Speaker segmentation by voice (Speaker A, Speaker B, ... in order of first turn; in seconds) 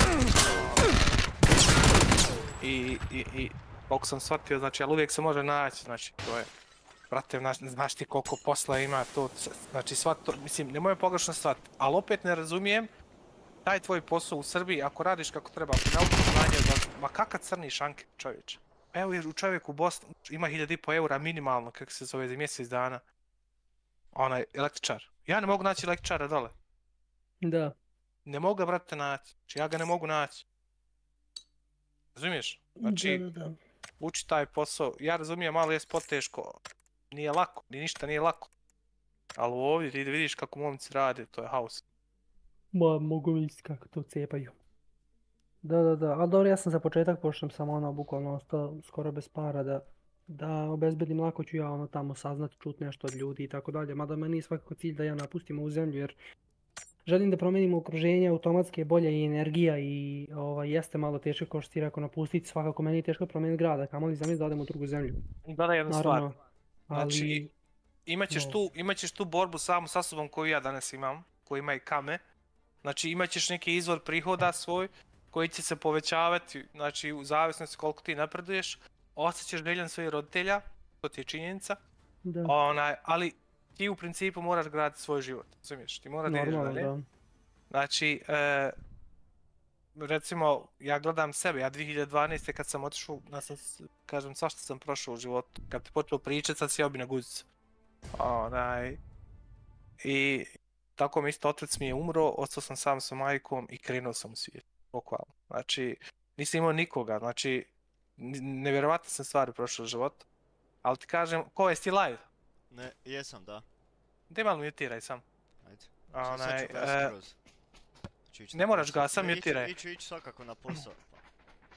Speaker A: 0.4-0.9, 2.6-6.5, 7.1-12.9, 13.6-23.0, 24.1-26.5, 28.2-30.4, 32.1-33.2, 34.0-36.6, 37.1-38.5, 39.4-41.8, 65.5-66.3, 66.9-67.4, 68.0-72.2, 72.8-81.8, 82.5-86.9, 87.7-88.7, 90.0-97.5, 98.1-99.0, 100.0-110.2, 110.8-112.2, 114.3-115.2, 116.1-117.1, 118.5-119.7
Speaker B: 27.4-27.8, 32.8-33.6, 42.7-44.5, 45.6-56.1, 57.0-65.2, 65.9-66.3, 66.9-67.5, 68.3-68.6, 82.2-82.5, 86.2-87.1
Speaker C: 112.7-113.7, 115.6-117.3, 118.3-121.2